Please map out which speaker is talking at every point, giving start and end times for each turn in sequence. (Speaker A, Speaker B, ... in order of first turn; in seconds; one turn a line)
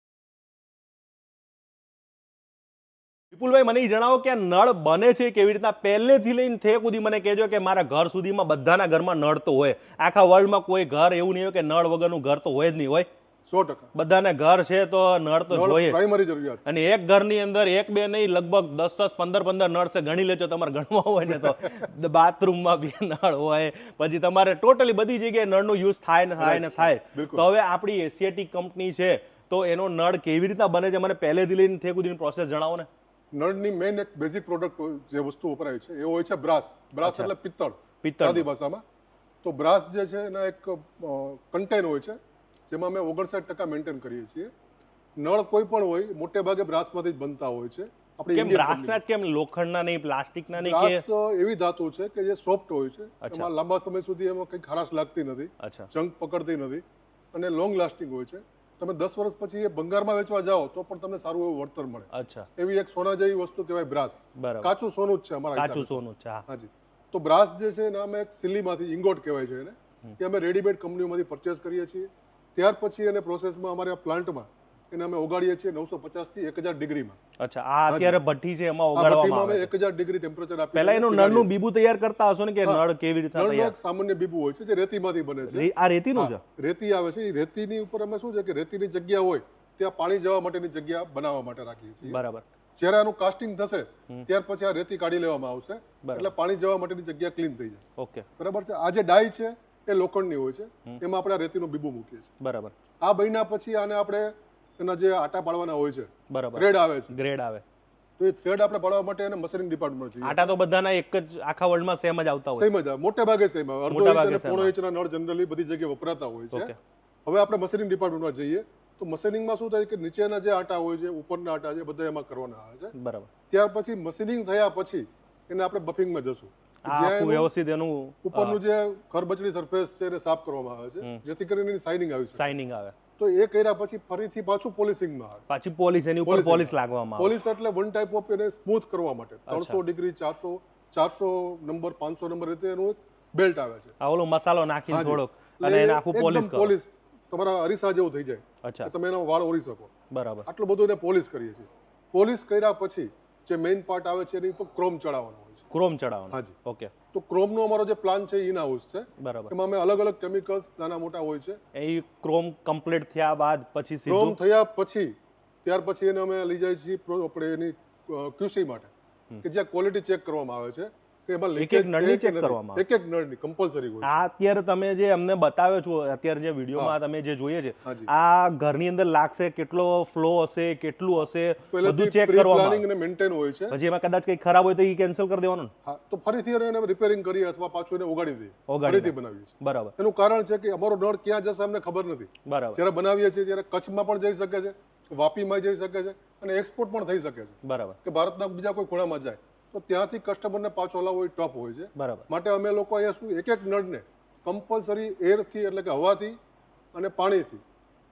Speaker A: 3.3-13.1
Speaker B: 13.5-13.9
Speaker A: 13.9-16.0
Speaker B: 15.5-16.7
Speaker A: 16.6-32.9
Speaker B: 21.4-21.8
Speaker B: 26.4-27.5
Speaker B: 33.3-38.8
Speaker A: 37.0-37.3
Speaker A: 38.0-38.5
Speaker B: 39.4-42.2
Speaker B: 42.7-44.5
Speaker B: 45.2-49.0
Speaker A: 48.3-51.0
Speaker B: 50.6-77.2
Speaker A: 53.2-53.5
Speaker A: 55.6-55.9
Speaker A: 62.1-62.5
Speaker A: 64.4-64.7
Speaker A: 65.5-66.4
Speaker A: 77.4-79.7
Speaker B: 77.9-78.2
Speaker B: 78.9-81.5
Speaker A: 80.7-83.7
Speaker B: 83.3-92.2
Speaker A: 85.5-86.4
Speaker A: 92.0-92.4
Speaker B: 92.8-97.8
Speaker A: 96.0-96.3
Speaker A: 98.0-98.2
Speaker B: 98.4-102.3
Speaker A: 102.4-102.7
Speaker B: 103.0-107.1
Speaker A: 106.3-107.6
Speaker B: 108.2-110.5
Speaker A: 110.2-112.7
Speaker B: 112.5-116.7
Speaker A: 113.9-114.7
Speaker B: 117.2-122.9
Speaker A: 122.9-123.3
Speaker B: 123.5-127.5
Speaker A: 126.8-128.6
Speaker B: 128.2-132.5
Speaker A: 132.3-132.9
Speaker B: 133.2-135.4
Speaker A: 135.5-137.3
Speaker B: 136.2-143.9
Speaker A: 139.5-139.8
Speaker A: 144.0-146.7
Speaker B: 144.9-149.9
Speaker A: 148.6-148.9
Speaker A: 150.1-150.5
Speaker B: 150.4-155.6
Speaker A: 155.7-156.9
Speaker B: 157.1-161.6
Speaker A: 159.2-159.5
Speaker A: 161.7-164.4
Speaker B: 164.1-165.1
Speaker B: 165.6-168.9
Speaker B: 169.4-174.2
Speaker A: 171.6-172.8
Speaker A: 174.0-182.8
Speaker B: 177.8-178.1
Speaker B: 181.7-183.8
Speaker A: 183.7-185.7
Speaker B: 185.8-206.4
Speaker A: 188.7-189.9
Speaker A: 192.4-192.8
Speaker A: 197.6-198.0
Speaker A: 201.9-202.3
Speaker B: 206.9-207.6